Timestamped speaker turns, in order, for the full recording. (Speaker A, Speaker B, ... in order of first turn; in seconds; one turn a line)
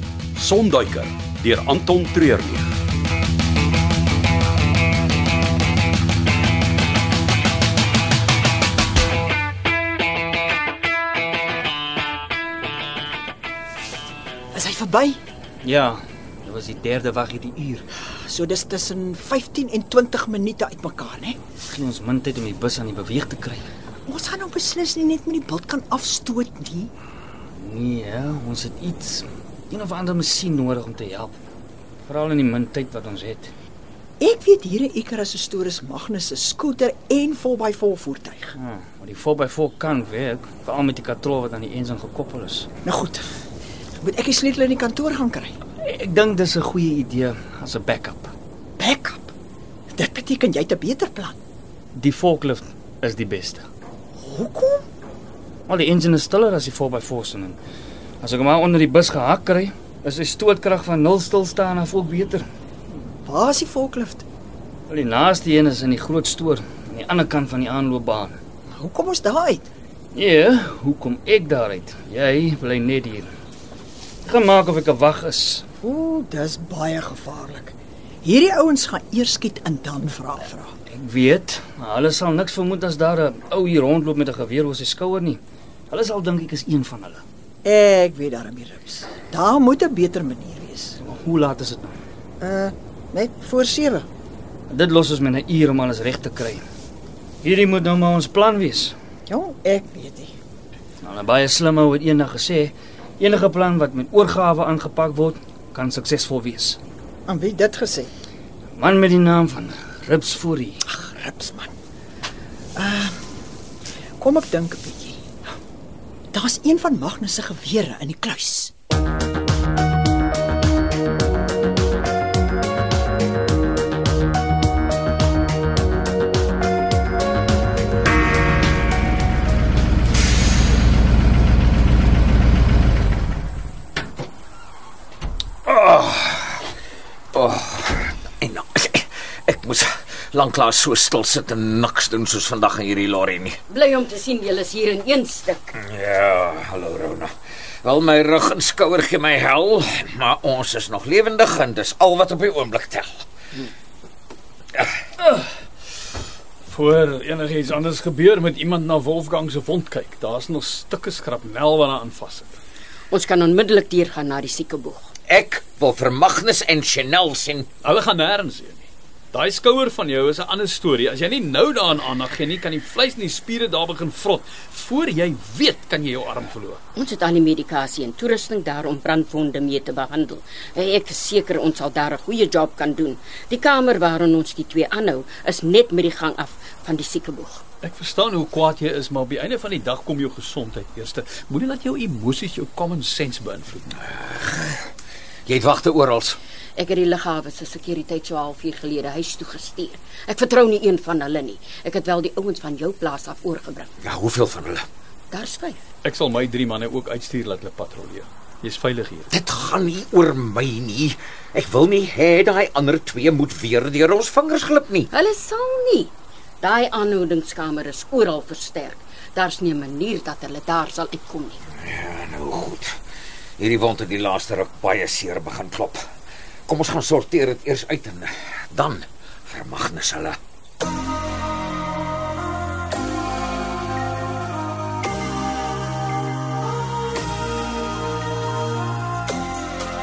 Speaker A: 0.3-2.7
Speaker B: 14.5-15.2
Speaker C: 15.6-17.9
Speaker B: 18.1-21.4
Speaker C: 21.6-23.7
Speaker B: 24.1-26.9
Speaker C: 27.5-31.3
Speaker C: 32.1-33.5
Speaker B: 34.2-38.5
Speaker C: 38.5-42.7
Speaker B: 42.8-43.3
Speaker B: 44.0-45.5
Speaker C: 45.8-48.3
Speaker B: 48.8-49.3
Speaker B: 49.9-51.4
Speaker C: 51.9-53.7
Speaker B: 54.2-54.8
Speaker C: 55.7-57.6
Speaker C: 58.2-62.5
Speaker B: 63.2-64.2
Speaker C: 64.9-68.4
Speaker B: 68.7-69.7
Speaker C: 70.1-73.3
Speaker C: 74.2-75.7
Speaker B: 75.8-80.7
Speaker C: 80.9-87.2
Speaker B: 87.6-91.0
Speaker C: 91.0-92.0
Speaker B: 92.4-94.1
Speaker C: 94.7-96.6
Speaker C: 97.4-98.9
Speaker B: 99.3-100.3
Speaker C: 101.0-106.8
Speaker B: 107.3-108.1
Speaker C: 108.7-110.8
Speaker B: 110.8-111.7
Speaker B: 112.8-113.2
Speaker B: 114.2-115.2
Speaker B: 116.3-118.7
Speaker D: 135.7-136.6
Speaker D: 137.3-143.6
Speaker E: 143.7-145.7
Speaker D: 145.7-147.3
Speaker D: 147.8-153.2
Speaker F: 156.7-162.6
Speaker E: 163.1-165.1
Speaker D: 165.3-167.7
Speaker F: 167.8-176.8
Speaker E: 176.9-187.6
Speaker F: 187.8-194.0
Speaker D: 194.0-194.9
Speaker D: 195.5-196.4
Speaker E: 196.8-203.9
Speaker D: 204.0-204.8
Speaker E: 205.3-205.8
Speaker F: 206.0-209.3
Speaker D: 209.3-215.1
Speaker E: 215.1-221.6
Speaker D: 221.8-222.9
Speaker D: 223.6-226.0
Speaker D: 226.7-230.4